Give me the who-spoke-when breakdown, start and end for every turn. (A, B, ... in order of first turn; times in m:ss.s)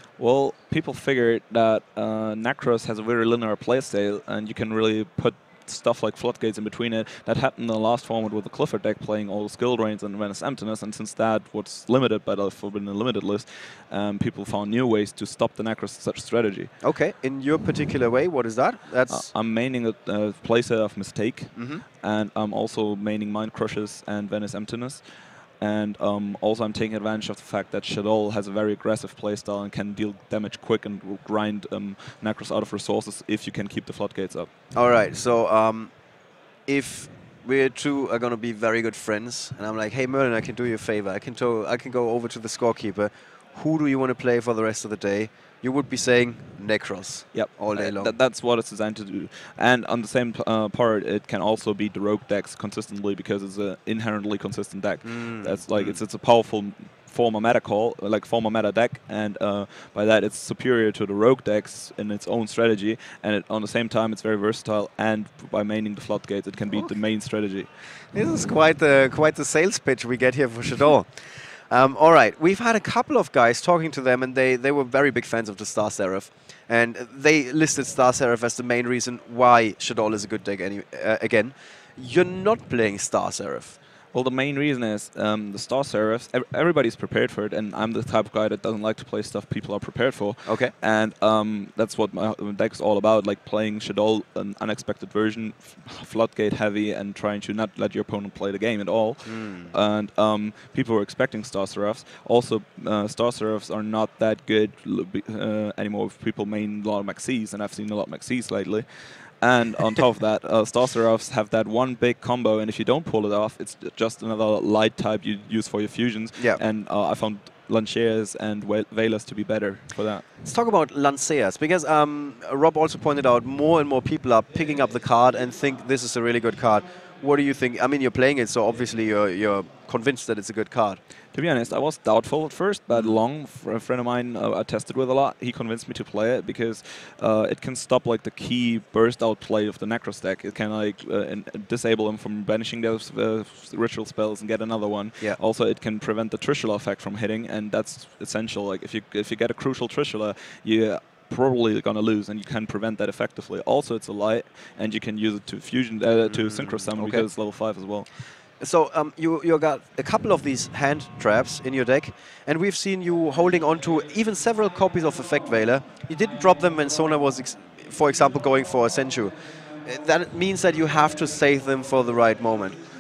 0:00.2-0:16.7 A
0:16.8-0:19.3 B
0:19.1-0:34.5 A
0:21.6-0:21.8 B
0:34.7-0:35.9 B
0:36.7-0:48.1 B
0:47.3-1:07.7 A
0:55.0-0:56.0 B
1:08.1-1:23.8 B
1:24.1-2:00.3 A
1:30.4-1:30.7 B
1:39.2-1:39.8 B
1:56.4-1:56.6 B
2:00.4-2:11.0 B
2:11.3-2:38.1 A
2:36.3-2:37.3 B
2:38.5-2:52.8 B